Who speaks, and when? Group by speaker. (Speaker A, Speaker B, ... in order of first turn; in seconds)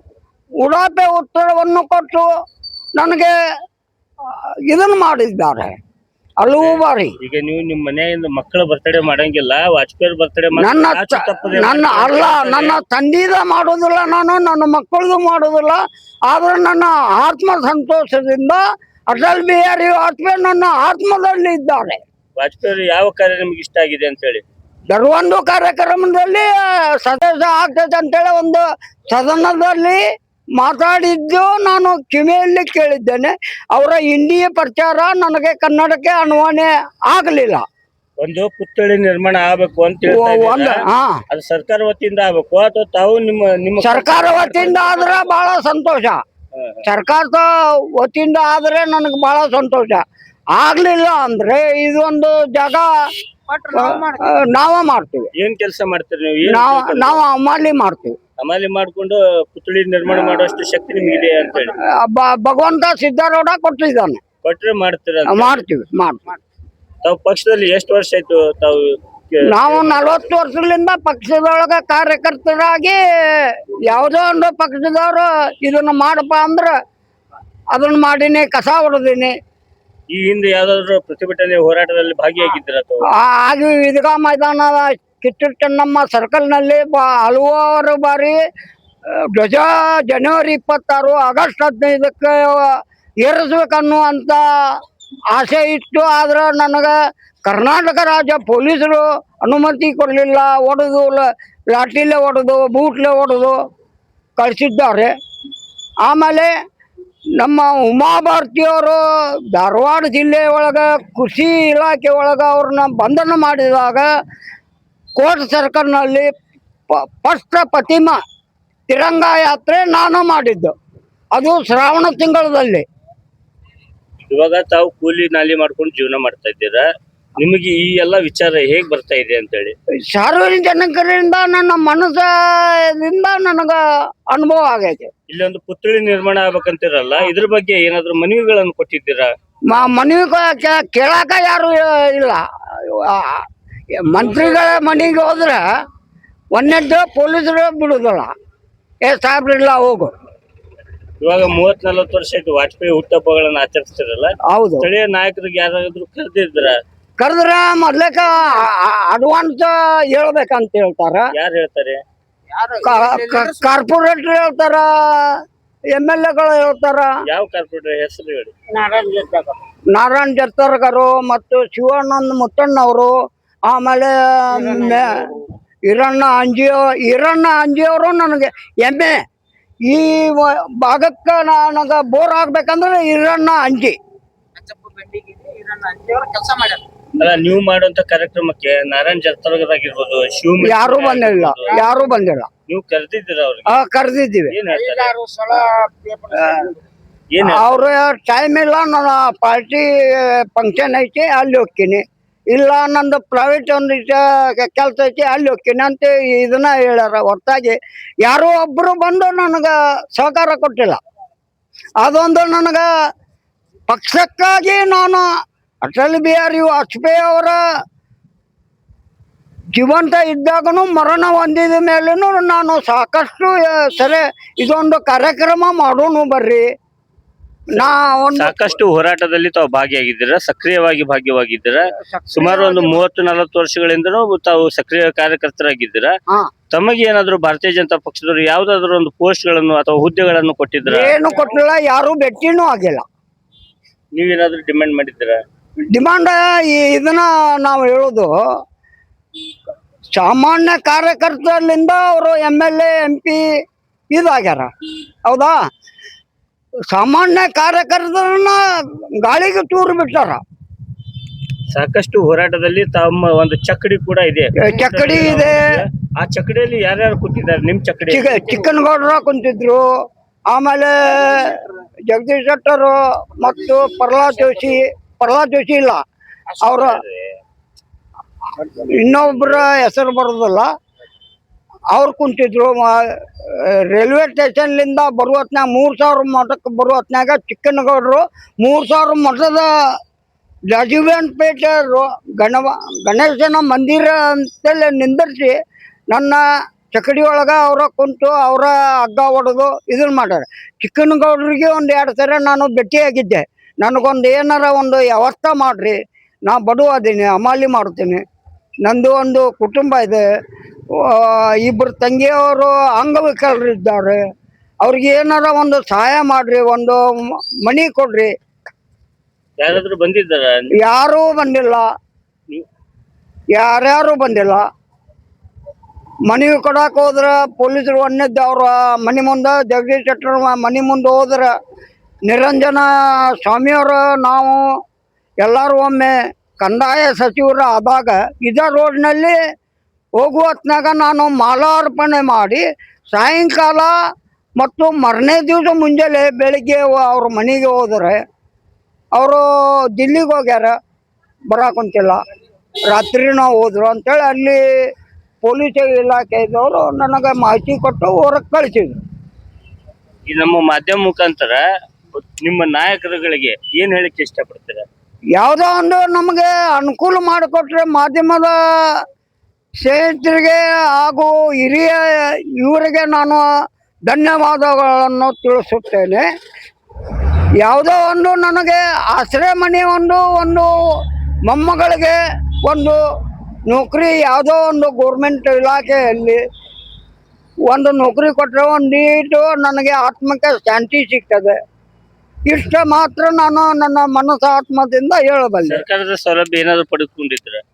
Speaker A: 0.6-2.3, 3.0-3.3, 4.3-5.8, 6.4-7.2, 10.6-22.0, 24.9-30.0, 30.6-37.6, 40.1-41.2, 43.8-46.2, 46.8-50.0, 50.5-52.9, 53.7-55.3, 56.4-58.2, 61.8-64.2, 65.3-66.4, 69.5-76.7, 77.7-79.3, 83.2-88.4, 89.3-94.8, 95.3-103.5, 104.4-105.1, 106.0-106.5, 107.4-109.0, 109.5-114.1, 115.2-116.3, 116.9-118.2, 118.9-120.7, 121.3-122.8, 130.1-135.1, 139.7-143.5, 144.0-145.6, 146.5-148.3, 149.1-150.1, 154.5-154.8, 157.2-161.3, 162.8-165.4, 165.9-167.2, 169.9-173.1, 173.7-175.3, 175.9-179.2, 179.9-184.0, 190.6-192.5, 193.7-194.6, 196.3-196.6, 197.4-211.0, 212.0-212.9, 213.9-215.3, 215.8-217.6, 219.8-226.7, 227.7-228.6, 232.0-233.0, 240.8-243.0, 245.9-248.3, 250.2-253.5, 254.1-254.7, 255.3-255.6, 256.9-258.6, 259.2-260.4, 264.6-265.8, 268.1-269.9, 270.5-276.0, 276.6-277.0, 278.5-280.7, 281.9-289.7, 290.7-295.5, 296.1-296.4, 296.9-308.2, 308.9-310.2, 311.0-314.2, 314.8-318.3, 320.8-321.9, 323.6-324.6, 326.3-331.5, 332.3-334.6, 335.4-339.4, 340.2-343.9, 344.6-348.2, 349.1-350.7, 351.5-352.2, 352.9-354.6, 355.4-359.0, 365.4-369.0, 369.8-373.4, 374.1-376.2, 377.6-380.7, 381.4-383.0, 383.7-386.4, 387.7-391.6, 392.5-395.8
Speaker B: 6.6-12.8, 22.4-24.4, 38.2-45.3, 46.5-46.8, 55.4-57.2, 58.4-61.8, 64.4-65.6, 67.0-70.1, 80.1-83.1, 124.2-126.9, 127.4-129.7, 135.3-139.3, 151.2-156.8, 161.3-162.0, 167.2-168.5, 187.2-191.8, 192.7-193.8, 194.5-195.1, 197.3-197.7, 227.7-236.1, 236.7-241.2, 244.2-245.4, 261.7-268.4, 276.6-277.2, 319.6-320.7, 360.3-361.6, 362.1-364.9, 395.6-397.6
Speaker C: 53.5-54.3, 162.5-163.7, 168.7-169.6, 184.6-186.8, 194.7-196.8